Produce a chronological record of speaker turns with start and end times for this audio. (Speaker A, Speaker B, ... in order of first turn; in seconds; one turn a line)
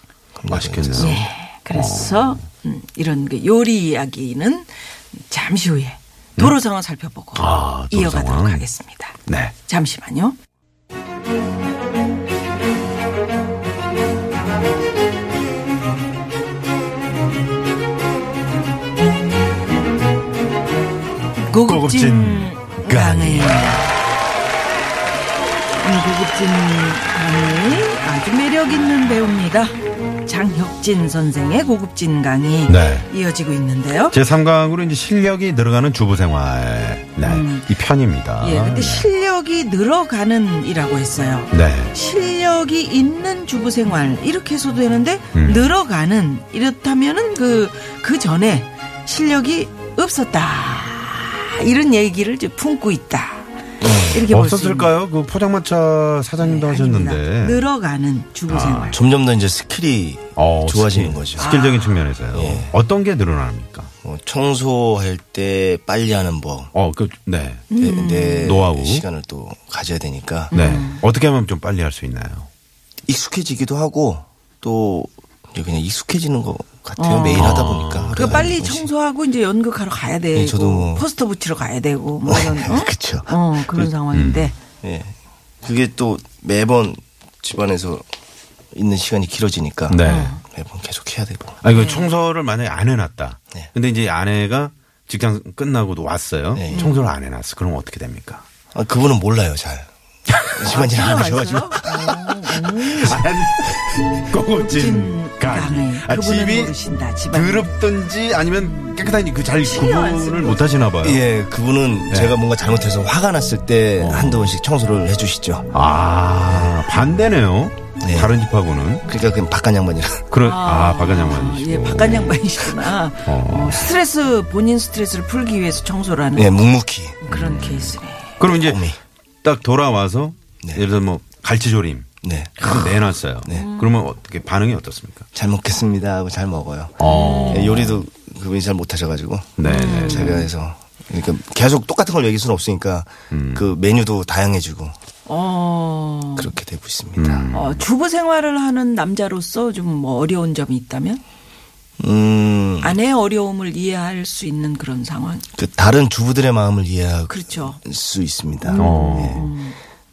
Speaker A: 0.4-1.2
Speaker B: 0.5-2.4
Speaker C: 1.0-10.4
Speaker B: 7.3-8.6
Speaker B: 9.3-9.5
Speaker C: 21.4-23.9
Speaker B: 21.6-23.9
Speaker C: 25.8-34.1
Speaker B: 32.7-33.1
Speaker B: 34.1-39.1
Speaker C: 37.2-37.7
Speaker C: 38.4-54.9
Speaker B: 41.5-41.9
Speaker B: 45.3-45.7
Speaker A: 53.8-54.3
Speaker B: 54.3-57.6
Speaker C: 56.4-59.0
Speaker B: 58.5-59.0
Speaker A: 58.9-61.5
Speaker B: 60.4-63.9
Speaker C: 61.4-62.1
Speaker A: 62.3-62.7
Speaker A: 64.0-66.7
Speaker B: 66.7-67.7
Speaker C: 67.7-68.6
Speaker A: 67.8-70.5
Speaker B: 68.4-69.0
Speaker C: 70.5-71.0
Speaker B: 70.5-72.5
Speaker A: 73.1-78.9
Speaker C: 77.0-84.5
Speaker B: 77.3-78.5
Speaker A: 80.3-81.0
Speaker A: 82.2-83.9
Speaker B: 84.1-84.5
Speaker A: 84.8-88.0
Speaker A: 88.7-91.6
Speaker B: 89.9-90.3
Speaker C: 90.0-90.4
Speaker B: 91.6-98.4
Speaker C: 91.7-92.1
Speaker A: 96.5-96.9
Speaker C: 96.7-97.1
Speaker A: 98.7-99.9
Speaker A: 100.4-102.1
Speaker C: 100.6-103.2
Speaker B: 102.9-106.8
Speaker C: 104.4-107.7
Speaker B: 107.3-111.2
Speaker C: 108.6-109.0
Speaker C: 109.5-110.8
Speaker A: 111.0-115.7
Speaker B: 112.1-112.4
Speaker B: 114.0-114.5
Speaker B: 115.7-119.0
Speaker A: 118.0-118.4
Speaker A: 119.1-120.3
Speaker B: 120.3-122.7
Speaker C: 120.4-126.6
Speaker B: 123.2-123.9
Speaker A: 126.3-127.2
Speaker C: 127.2-128.4
Speaker B: 127.3-128.9
Speaker A: 128.5-129.0
Speaker B: 129.4-135.2
Speaker A: 132.2-133.7
Speaker C: 133.5-133.9
Speaker A: 135.3-144.9
Speaker B: 137.0-138.0
Speaker C: 137.0-137.8
Speaker B: 139.6-140.4
Speaker C: 139.6-140.5
Speaker B: 143.3-143.7
Speaker C: 145.2-146.5
Speaker A: 146.3-147.5
Speaker B: 147.2-147.8
Speaker C: 147.5-151.2
Speaker A: 152.0-153.0
Speaker C: 152.8-155.4
Speaker A: 155.6-159.5
Speaker C: 157.3-157.8
Speaker C: 158.6-159.8
Speaker B: 158.8-159.5